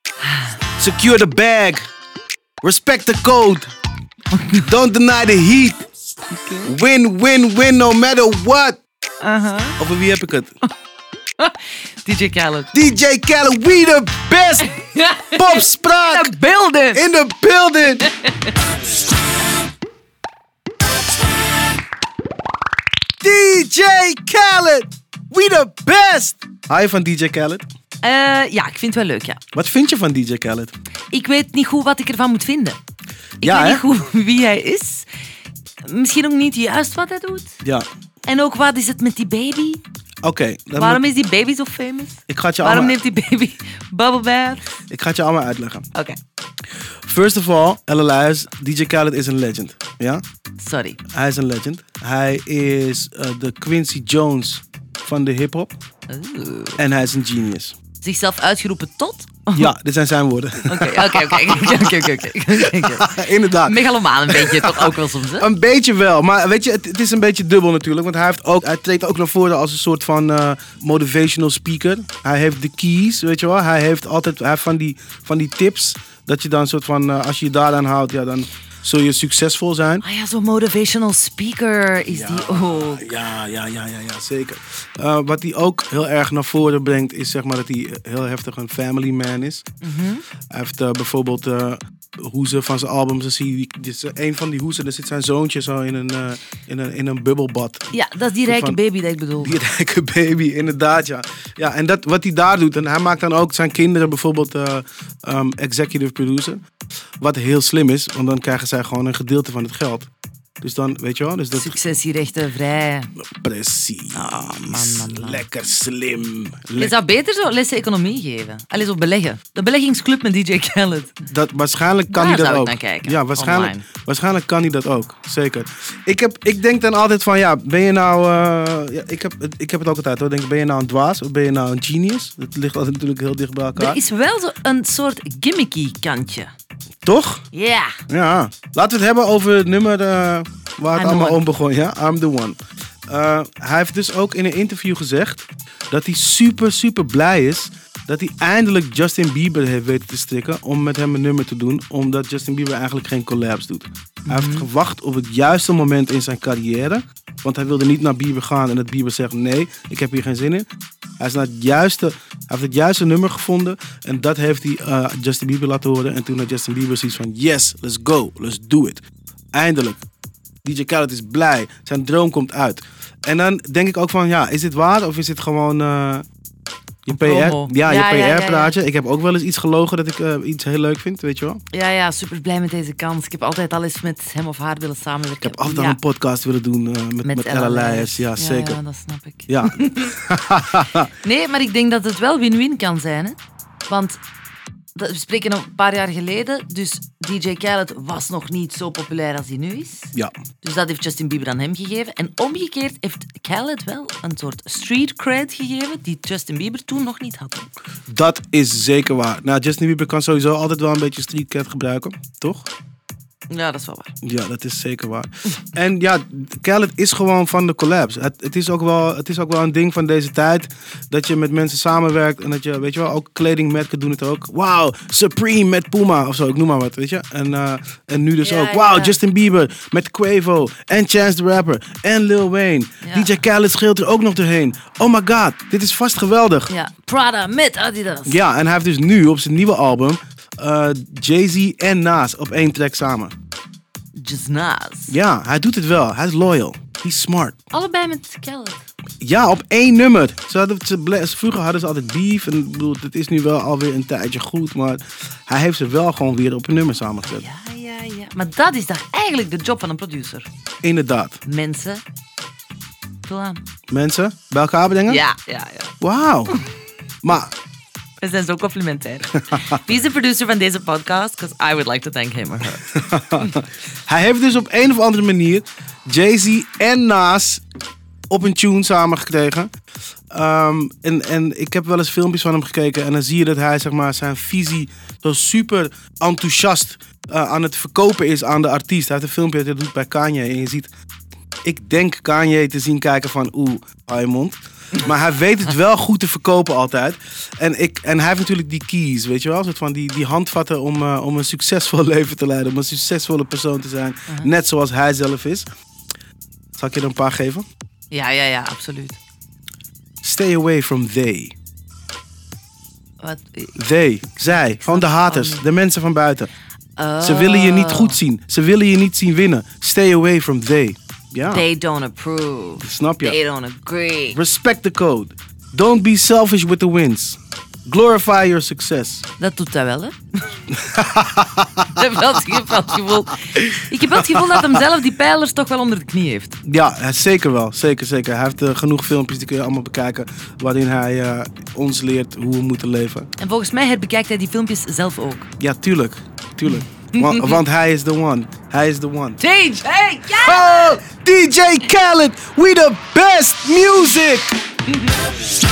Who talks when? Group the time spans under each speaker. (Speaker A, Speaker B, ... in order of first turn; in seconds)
Speaker A: 0.2-0.5, 4.3-4.7, 6.3-6.7, 9.2-9.8, 11.4-12.7, 14.6-17.0, 18.0-18.5, 28.0-29.4, 31.1-32.8, 33.4-35.1, 35.8-37.5, 38.2-39.8, 40.7-44.6, 50.6-51.0, 56.1-56.8, 58.0-59.7, 60.7-65.5, 80.0-83.2, 89.8-90.2, 97.9-99.6, 111.5-113.1, 114.1-115.4, 116.8-121.2, 122.1-123.8, 133.7-136.5, 137.5-137.9, 140.9-141.4, 154.3-154.7, 177.1-178.8, 181.7-186.0, 187.2-190.1, 191.2-194.2, 194.9-207.7, 213.5-214.1, 228.4-229.2, 233.0-233.3, 236.7-238.4, 244.1-245.2, 247.7-248.8, 257.3-260.5, 261.4-262.0, 263.2-263.6, 265.1-265.9, 268.2-272.9, 308.1-309.2, 313.2-313.7, 314.6-315.6, 317.0-318.2, 321.4-324.4, 329.4-330.6, 331.9-336.6, 343.4-345.5, 346.6-347.6, 349.4-351.0
Speaker B: 0.8-1.8, 2.6-3.7, 4.6-5.8, 6.6-8.8, 9.8-10.5, 12.7-14.7, 15.3-16.3, 16.9-18.0, 23.2-27.6, 29.5-30.7, 33.4-33.8, 40.2-41.0, 42.3-43.0, 44.9-45.9, 47.0-50.2, 51.1-55.7, 56.8-57.8, 59.5-80.0, 82.1-89.6, 90.5-97.9, 98.4-98.8, 99.4-106.6, 107.2-110.1, 110.6-111.8, 113.4-117.0, 121.3-134.0, 137.0-137.4, 138.1-142.6, 143.1-160.7, 161.2-169.0, 169.5-170.0, 170.6-176.2, 177.0-181.6, 185.4-188.8, 189.5-191.1, 208.1-212.7, 214.2-236.7, 238.2-243.3, 245.1-247.6, 249.2-257.4, 260.8-261.4, 263.9-265.2, 266.0-266.5, 267.2-267.5, 272.9-277.6, 278.3-279.7, 280.3-290.9, 291.6-305.7, 306.8-307.6, 310.2-311.5, 313.8-316.5, 317.2-321.6, 322.8-323.4, 324.3-329.2, 330.7-331.8, 334.2-334.8, 336.6-343.3, 345.6-349.4, 350.3-354.5